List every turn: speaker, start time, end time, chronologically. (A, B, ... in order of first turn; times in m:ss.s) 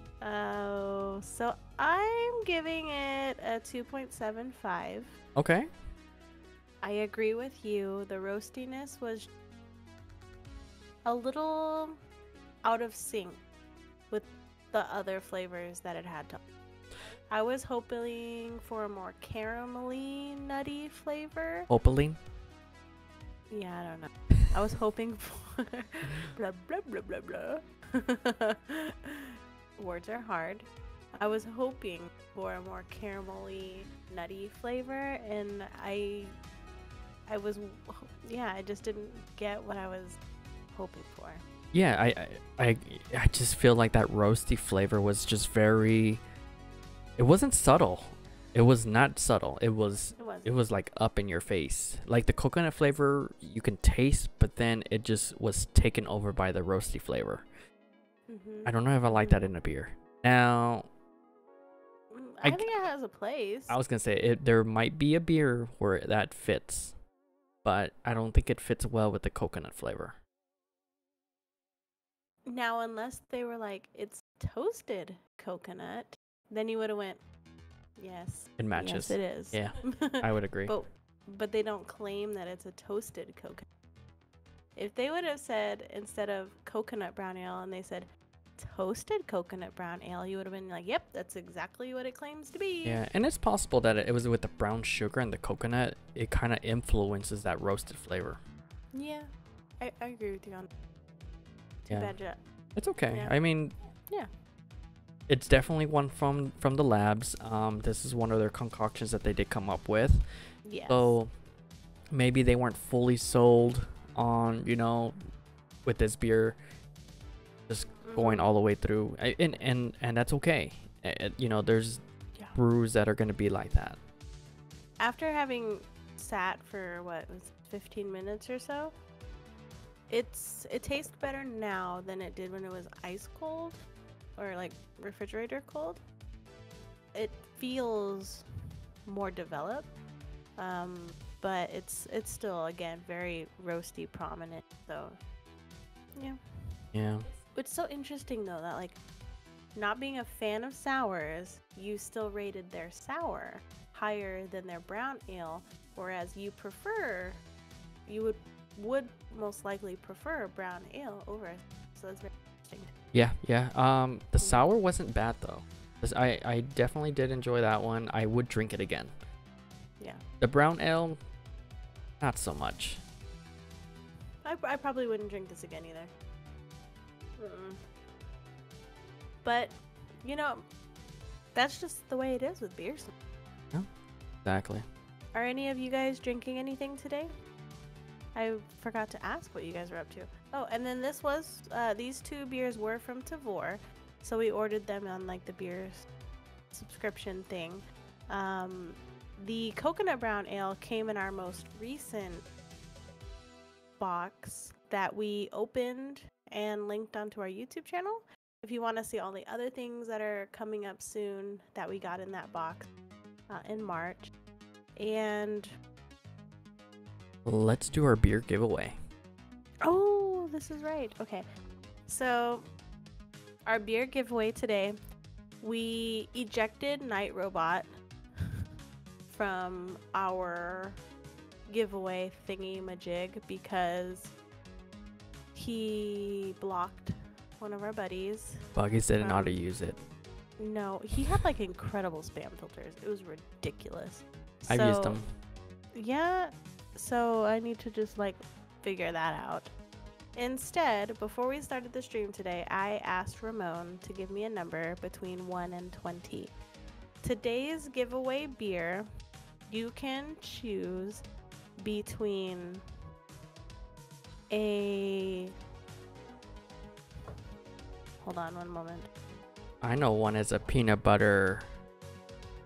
0:00.2-0:05.1 A
0:05.4-0:05.7 B
0:06.8-0:09.3 A
0:11.0-0:12.0 A
0:12.6-0:13.4 A
0:14.1-0:16.4 A
0:17.3-0:21.7 A
0:21.7-0:22.2 B
0:23.5-0:36.3 A
0:37.3-0:40.2 A
0:40.7-0:41.4 A
0:41.7-0:46.2 B
0:47.2-0:57.5 B
0:50.2-0:50.5 A
0:58.3-0:59.4 A
0:58.6-1:00.9 B
1:02.1-1:03.8 A
1:03.7-1:07.0 B
1:07.6-1:10.2 B
1:12.5-1:17.2 A
1:18.0-1:23.6 A
1:18.6-1:20.7 B
1:24.8-1:33.0 A
1:32.8-1:38.4 B
1:38.9-1:40.7 A
1:41.8-1:42.4 A
1:41.9-1:42.2 B
1:42.8-1:43.7 B
1:43.1-1:43.4 A
1:45.3-1:50.3 B
1:50.6-1:51.1 A
1:50.9-1:51.3 B
1:52.1-1:55.2 B
1:55.8-1:56.6 B
1:57.7-2:02.0 B
1:58.0-1:58.5 A
2:02.5-2:04.0 B
2:05.0-2:08.9 A
2:10.1-2:13.8 A
2:14.4-2:16.0 A
2:17.1-2:18.4 A
2:19.0-2:19.9 A
2:20.6-2:25.2 A
2:26.9-2:27.3 B
2:27.3-2:29.0 A
2:29.7-2:37.4 A
2:38.1-2:42.9 A
2:43.1-2:49.1 B
2:44.4-2:44.6 A
2:50.4-2:51.2 B
2:52.2-2:53.0 B
2:54.4-2:56.1 A
2:57.4-2:57.8 A
2:59.4-3:00.6 A
3:01.5-3:03.1 A
3:04.4-3:04.8 B
3:05.3-3:07.3 A
3:08.3-3:16.1 A
3:16.7-3:22.4 A
3:24.0-3:32.9 A
3:33.5-3:34.3 A
3:35.0-3:35.7 A
3:37.4-3:39.0 B
3:39.8-3:41.4 A
3:42.1-3:42.7 A
3:43.6-3:45.0 A
3:45.6-3:47.9 A
3:49.3-3:51.0 A
3:51.7-3:54.3 A
3:55.5-3:58.6 A
3:58.7-4:00.0 B
3:59.2-3:59.6 A
4:00.6-4:05.2 A
4:04.7-4:05.3 B
4:05.9-4:09.7 A
4:10.3-4:16.5 A
4:17.2-4:19.1 A
4:19.7-4:21.2 A
4:21.8-4:22.8 A
4:24.5-4:25.5 A
4:28.2-4:29.1 A
4:29.8-4:31.7 B